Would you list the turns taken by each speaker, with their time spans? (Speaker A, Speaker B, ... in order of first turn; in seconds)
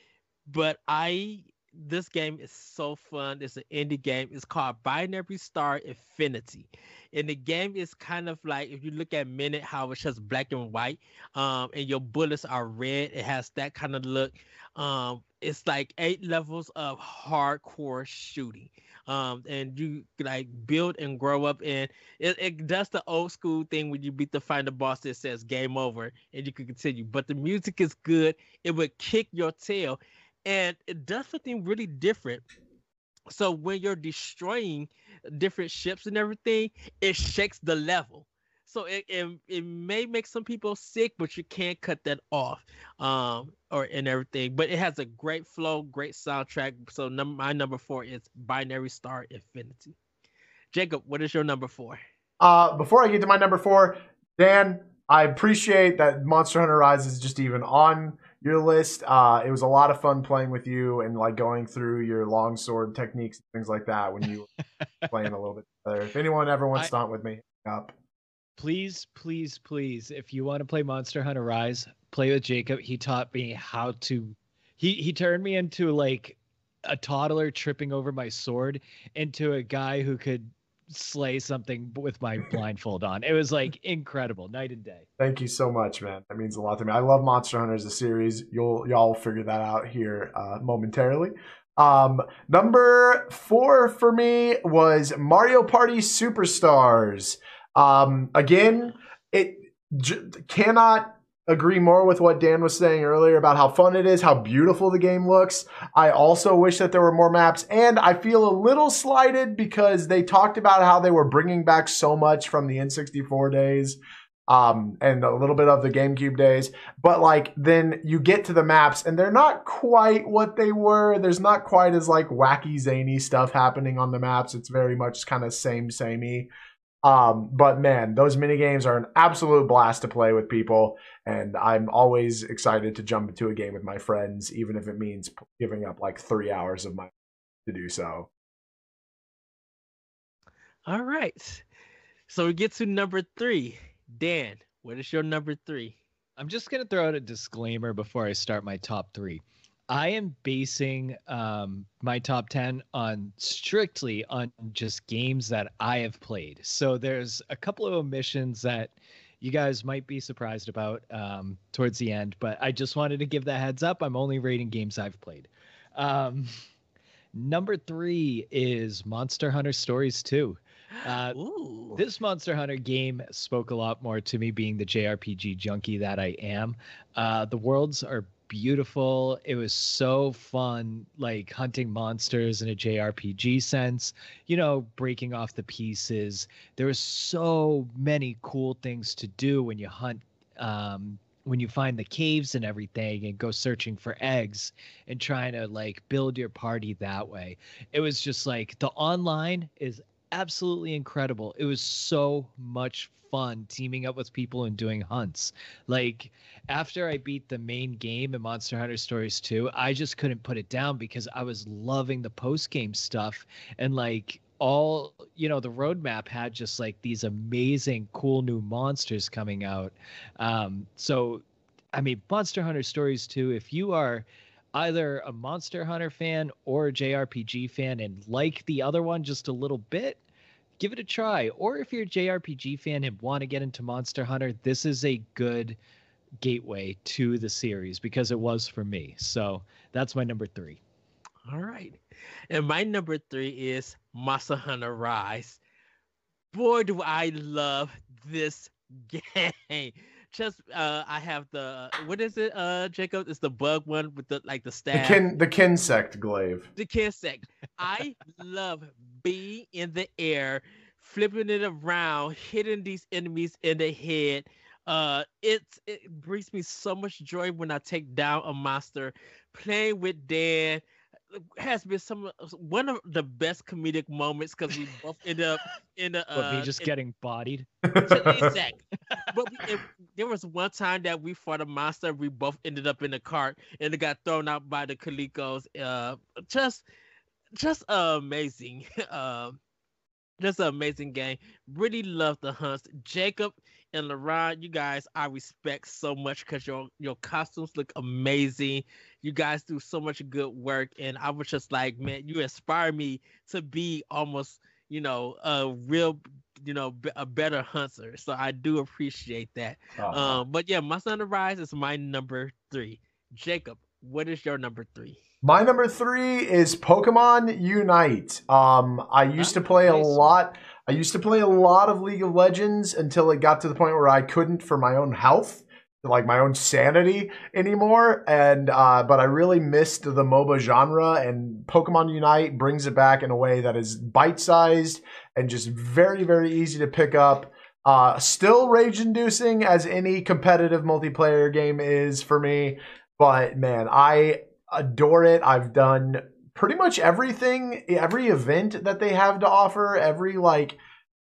Speaker A: 0.5-32.5, 33.3-50.0, 50.7-52.0, 140.9-141.6, 142.3-146.0, 171.0-172.0, 241.5-245.6, 246.5-255.2, 256.8-276.9, 278.0-286.8, 287.6-289.6, 290.4-315.2
Speaker B: 52.4-64.5, 65.1-67.9, 85.2-126.5, 127.0-137.1, 137.7-138.3, 254.9-256.7, 277.9-278.5, 310.0-310.4, 315.4-350.8
Speaker C: 64.8-65.1, 68.6-85.1, 146.4-166.5, 167.3-171.4, 172.0-221.4, 221.9-230.2, 230.8-235.8, 236.4-240.8, 276.4-277.7, 319.4-320.3